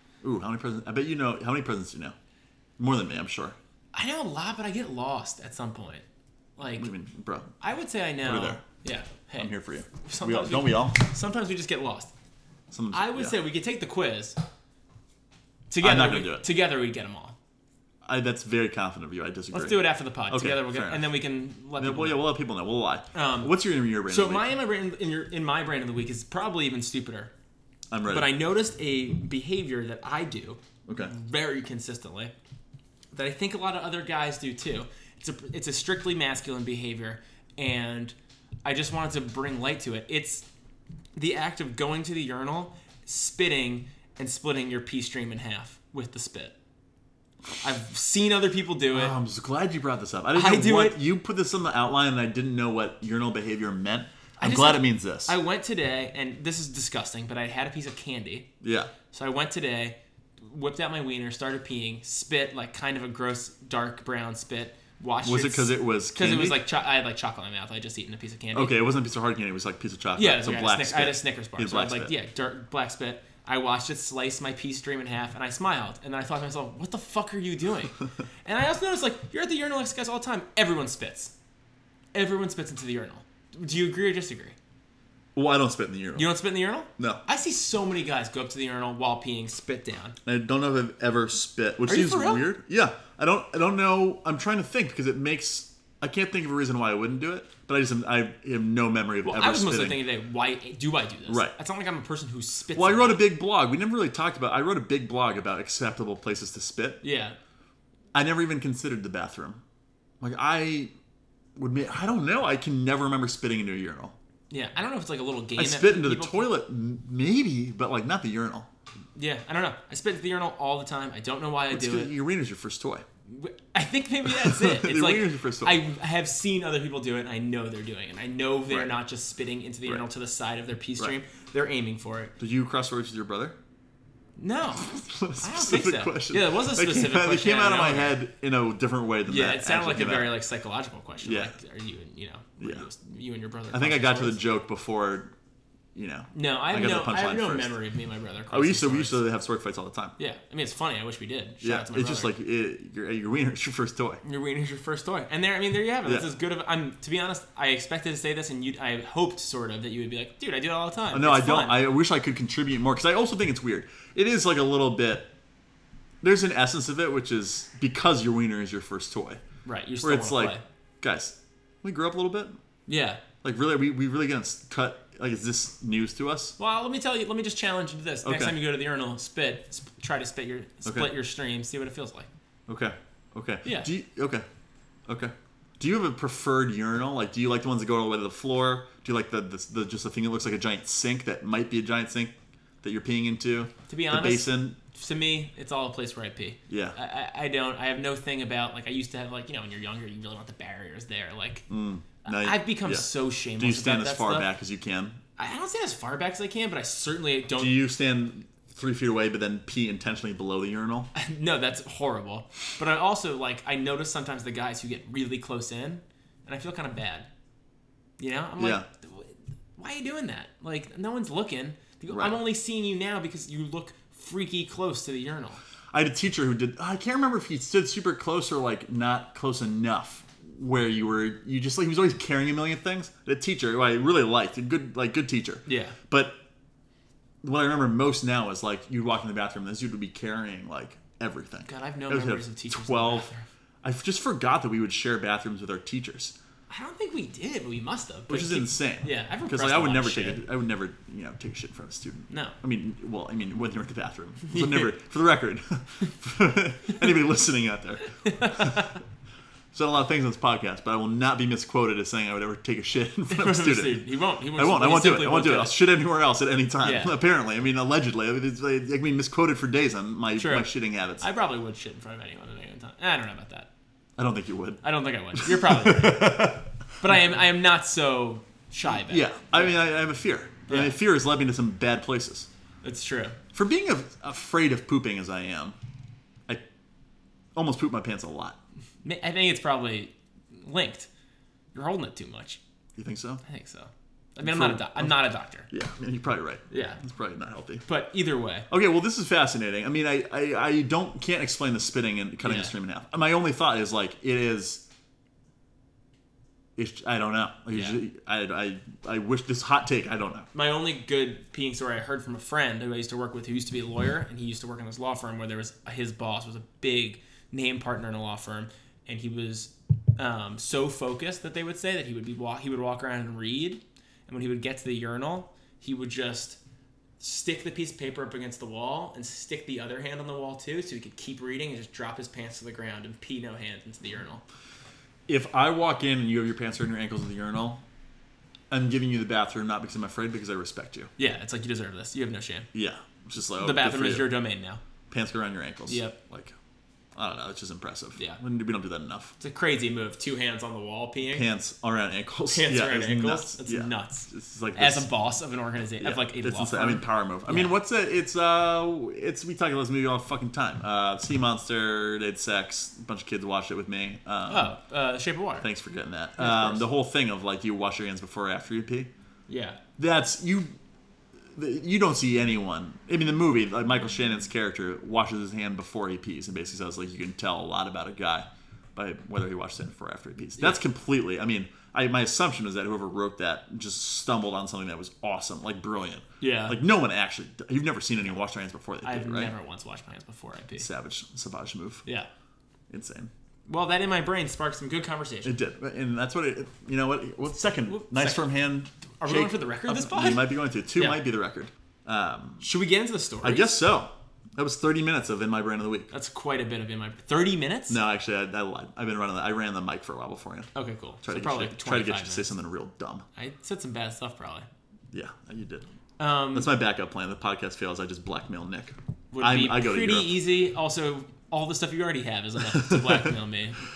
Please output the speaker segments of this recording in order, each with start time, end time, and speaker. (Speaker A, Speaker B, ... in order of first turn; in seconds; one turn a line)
Speaker A: 0.2-2.1
Speaker A: 2.8-3.6
Speaker B: 3.9-6.0
Speaker B: 6.6-6.9
Speaker A: 6.8-7.5
Speaker B: 7.6-12.1
Speaker A: 8.2-8.6
Speaker A: 9.3-11.0
Speaker A: 12.7-13.4
Speaker B: 12.9-14.3
Speaker B: 15.7-17.3
Speaker A: 15.8-16.5
Speaker A: 18.0-21.1
Speaker B: 19.5-22.2
Speaker A: 21.8-24.5
Speaker B: 23.1-27.3
Speaker A: 27.9-28.3
Speaker B: 28.1-32.3
Speaker A: 30.9-31.1
Speaker B: 33.1-40.5
Speaker B: 41.1-46.5
Speaker B: 47.6-49.1
Speaker A: 48.9-55.4
Speaker B: 50.3-51.0
Speaker B: 54.4-58.5
Speaker A: 58.6-58.9
Speaker B: 59.1-68.8
Speaker A: 65.2-66.6
Speaker A: 68.5-72.1
Speaker B: 70.2-81.3
Speaker B: 82.1-84.5
Speaker A: 85.3-86.3
Speaker B: 86.1-90.2
Speaker A: 90.2-100.0
Speaker B: 91.8-92.5
Speaker B: 99.2-103.2
Speaker A: 101.3-101.5
Speaker A: 102.7-107.0
Speaker B: 107.0-107.4
Speaker A: 108.1-109.6
Speaker A: 110.2-110.9
Speaker A: 111.5-114.1
Speaker B: 114.5-116.5
Speaker A: 115.5-118.7
Speaker B: 119.2-122.1
Speaker A: 121.7-123.0
Speaker B: 123.3-132.3
Speaker A: 124.2-125.8
Speaker A: 128.7-128.9
Speaker A: 132.4-133.6
Speaker B: 134.4-138.2
Speaker A: 134.8-140.3
Speaker B: 139.3-144.4
Speaker A: 141.2-141.5
Speaker A: 142.6-142.8
Speaker A: 143.7-145.3
Speaker A: 145.9-147.8
Speaker B: 146.3-149.2
Speaker A: 148.5-150.1
Speaker B: 150.2-152.3
Speaker A: 151.6-154.2
Speaker B: 154.2-161.8
Speaker A: 156.0-156.3
Speaker A: 161.1-165.3
Speaker A: 166.2-169.4
Speaker B: 169.6-170.6
Speaker A: 170.0-172.6
Speaker B: 172.9-173.2
Speaker A: 173.4-176.6
Speaker B: 176.6-182.3
Speaker A: 178.2-178.6
Speaker A: 180.8-181.1
Speaker A: 182.7-184.4
Speaker B: 183.6-183.9
Speaker A: 185.1-194.8
Speaker B: 193.9-201.7
Speaker A: 196.7-196.9
Speaker A: 201.7-205.2
Speaker B: 202.2-204.5
Speaker B: 205.4-207.7
Speaker A: 207.6-211.1
Speaker B: 211.1-217.3
Speaker B: 218.2-225.6
Speaker A: 218.6-218.8
Speaker A: 222.1-222.4
Speaker A: 225.9-236.4
Speaker B: 235.7-235.9
Speaker A: 237.4-243.3
Speaker B: 241.7-243.4
Speaker A: 243.8-246.3
Speaker B: 246.7-250.4
Speaker A: 248.3-258.9
Speaker B: 252.3-252.5
Speaker B: 254.5-254.8
Speaker B: 258.2-258.9
Speaker A: 259.7-271.2
Speaker B: 263.3-265.8
Speaker B: 266.8-267.1
Speaker B: 270.4-273.7
Speaker A: 274.2-277.1
Speaker B: 274.8-279.7
Speaker A: 278.9-282.5
Speaker B: 280.7-281.0
Speaker B: 282.8-283.4
Speaker A: 283.5-285.8
Speaker A: 287.5-288.6
Speaker B: 289.0-291.1
Speaker B: 291.7-292.6
Speaker A: 293.0-293.4
Speaker B: 293.4-295.7
Speaker A: 294.4-297.8
Speaker B: 296.7-297.0
Speaker B: 297.9-298.7
Speaker A: 298.7-304.8
Speaker B: 302.4-302.7
Speaker A: 306.8-310.5
Speaker B: 307.7-308.0
Speaker B: 310.5-326.6
Speaker B: 327.2-334.4
Speaker A: 335.3-337.8
Speaker A: 338.7-341.1
Speaker B: 341.2-342.7
Speaker A: 342.7-344.4
Speaker B: 343.6-344.8
Speaker A: 345.1-346.6
Speaker B: 345.9-346.2
Speaker A: 347.1-349.3
Speaker B: 349.4-351.5
Speaker A: 351.3-355.1
Speaker B: 352.5-357.7
Speaker A: 356.0-364.7
Speaker B: 364.5-365.7
Speaker A: 365.6-369.1
Speaker B: 366.4-366.9
Speaker B: 369.5-369.8
Speaker A: 370.0-370.8
Speaker A: 371.5-389.5
Speaker B: 386.4-386.8
Speaker B: 389.0-390.9
Speaker A: 390.8-392.0
Speaker A: 392.9-393.3
Speaker B: 393.7-395.6
Speaker A: 395.4-402.6
Speaker B: 397.6-398.5
Speaker B: 399.2-401.2
Speaker B: 402.6-403.8
Speaker A: 403.4-406.1
Speaker B: 406.1-408.0
Speaker A: 407.9-410.7
Speaker B: 410.7-412.5
Speaker A: 411.2-413.2
Speaker B: 413.4-414.7
Speaker A: 415.1-415.9
Speaker B: 416.2-416.7
Speaker A: 416.5-420.4
Speaker B: 419.3-423.8
Speaker A: 422.7-423.3